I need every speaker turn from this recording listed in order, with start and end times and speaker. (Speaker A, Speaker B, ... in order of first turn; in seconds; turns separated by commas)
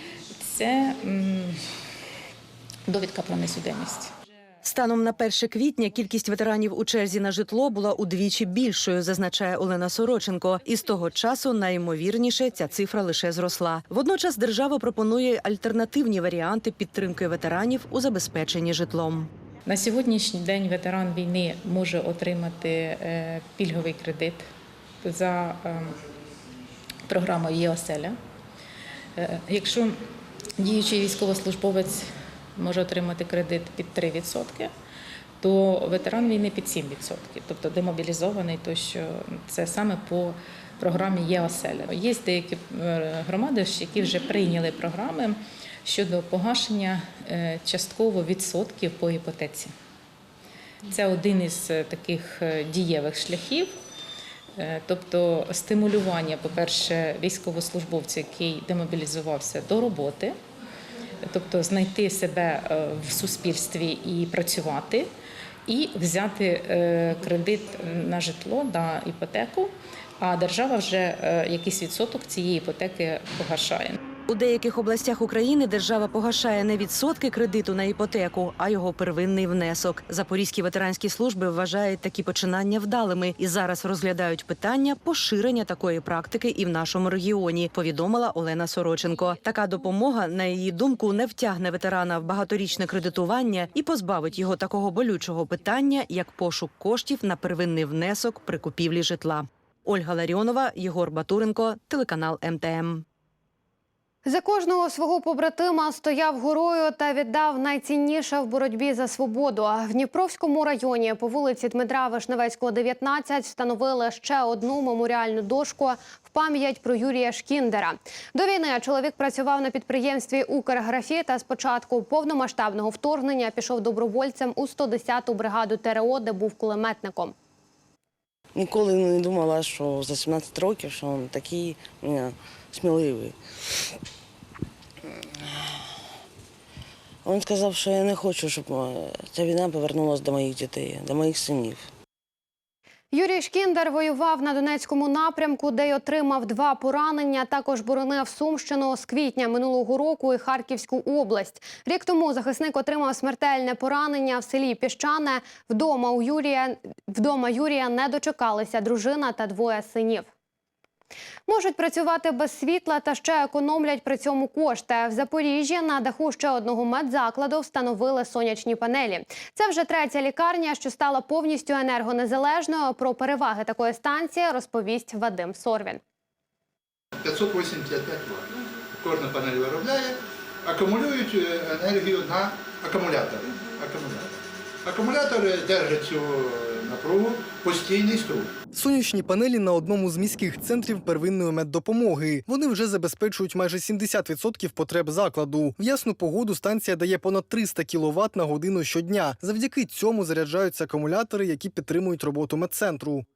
Speaker A: 0.5-1.6, Speaker A: 2.9-4.1, Speaker B: 4.6-19.3, Speaker A: 19.7-24.4, Speaker A: 25.0-26.0, Speaker A: 27.1-28.1, Speaker A: 29.2-30.0, Speaker A: 30.6-34.7, Speaker A: 35.4-49.7, Speaker A: 50.9-53.7, Speaker A: 54.6-60.3, Speaker A: 61.2-65.1, Speaker A: 65.7-74.0, Speaker B: 74.3-103.0, Speaker C: 104.2-127.3, Speaker D: 128.5-133.4, Speaker D: 137.2-141.8, Speaker C: 143.1-160.3, Speaker C: 161.5-176.0, Speaker E: 177.2-188.5, Speaker F: 188.7-203.2